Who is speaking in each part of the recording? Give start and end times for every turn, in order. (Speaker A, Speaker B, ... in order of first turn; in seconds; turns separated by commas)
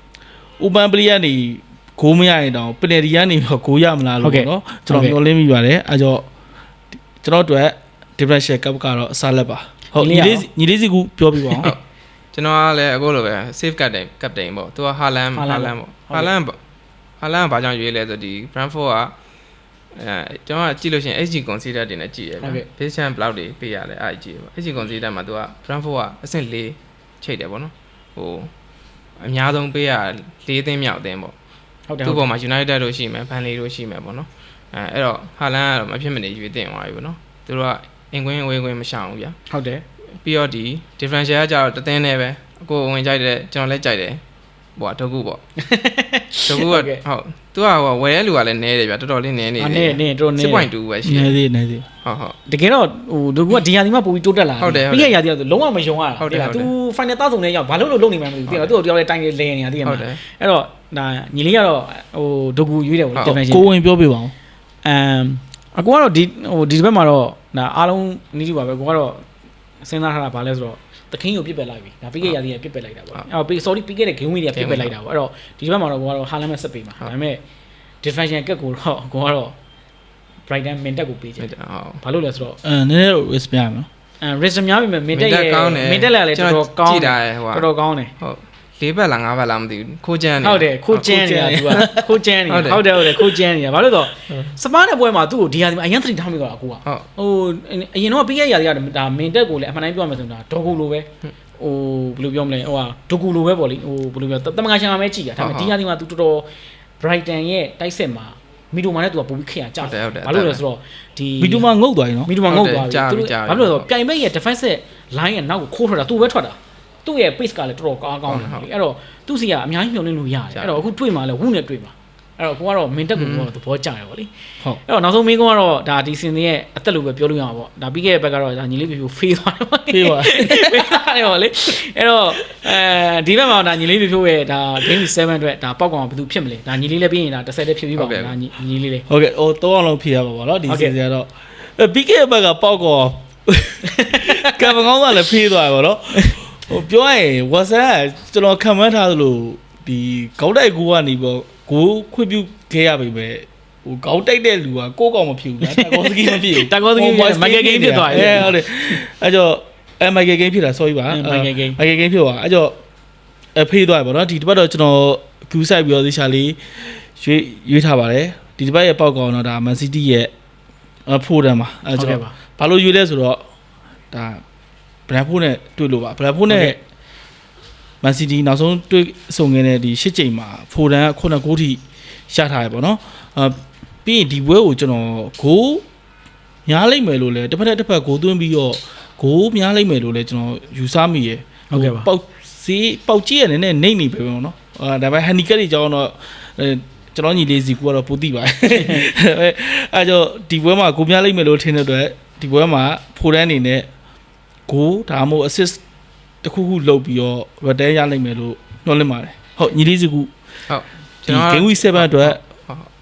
Speaker A: 0.6-6.3, Speaker B: 4.2-5.2, Speaker A: 7.2-11.8, Speaker B: 10.0-10.5, Speaker C: 12.3-16.6, Speaker B: 15.3-16.3, Speaker C: 17.2-19.1, Speaker C: 19.9-28.5, Speaker B: 22.4-22.7, Speaker C: 29.2-31.4, Speaker B: 31.9-32.3, Speaker C: 32.0-39.4, Speaker B: 39.5-39.8, Speaker C: 40.2-44.2, Speaker C: 44.8-45.4, Speaker B: 45.6-47.0, Speaker C: 46.5-51.4, Speaker B: 49.6-50.7, Speaker A: 51.0-51.9, Speaker C: 52.0-52.4, Speaker B: 52.5-63.7, Speaker C: 54.6-55.2, Speaker C: 56.2-56.7, Speaker C: 59.9-60.2, Speaker A: 63.2-64.3, Speaker B: 64.8-69.2, Speaker B: 69.8-77.4, Speaker C: 74.5-74.9, Speaker B: 78.0-79.6, Speaker B: 80.5-81.5, Speaker C: 81.4-82.0, Speaker B: 82.0-82.6, Speaker A: 82.6-83.9, Speaker B: 84.2-88.1, Speaker C: 85.2-90.7, Speaker B: 90.4-106.5, Speaker A: 90.9-92.1, Speaker C: 92.5-93.3, Speaker C: 105.4-105.7, Speaker B: 107.0-111.7, Speaker C: 109.8-110.6, Speaker A: 111.4-112.3, Speaker B: 112.3-124.3, Speaker C: 112.5-113.9, Speaker C: 118.3-118.7, Speaker C: 123.2-123.5, Speaker B: 124.9-139.1, Speaker A: 129.9-130.9, Speaker C: 138.0-138.3, Speaker A: 139.1-162.8, Speaker B: 140.7-140.9, Speaker B: 143.8-144.8, Speaker B: 155.6-158.6, Speaker B: 161.1-161.8, Speaker A: 163.6-170.3, Speaker A: 171.1-173.4, Speaker B: 172.0-172.3, Speaker A: 174.1-174.4, Speaker A: 175.1-176.8, Speaker B: 176.5-176.8, Speaker A: 178.0-185.8, Speaker A: 186.7-203.9, Speaker B: 191.7-192.1, Speaker A: 204.7-205.8, Speaker A: 206.4-210.3, Speaker C: 210.7-212.9, Speaker A: 211.3-212.4